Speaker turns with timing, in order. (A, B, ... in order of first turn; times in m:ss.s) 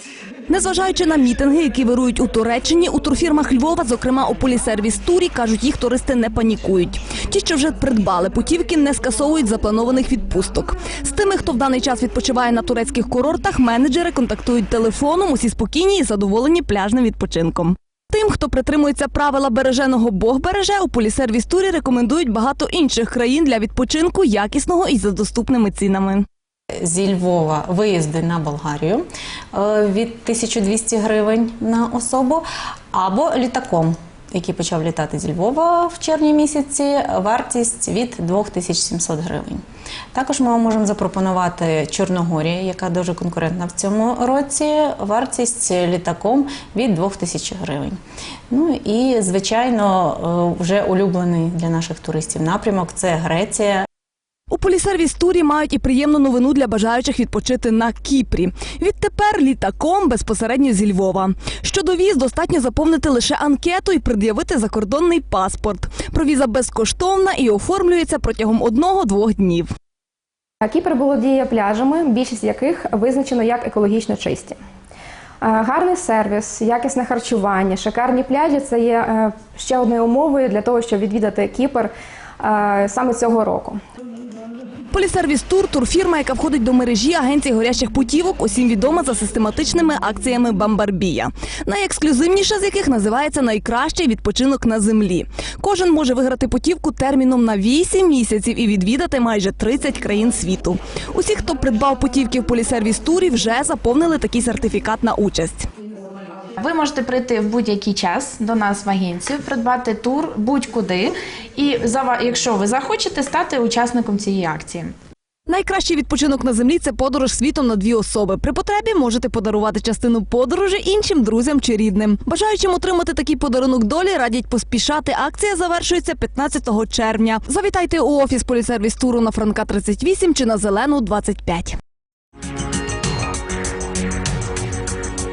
0:00.5-0:26.2 A
0:26.8-0:39.6 B
0:40.1-0:48.0 B
0:48.5-0:53.8 B
0:54.5-1:09.7 A
1:10.6-1:14.6 C
1:15.4-1:23.8 C
1:24.9-1:45.7 A
1:46.6-1:54.9 D
1:55.5-2:11.8 A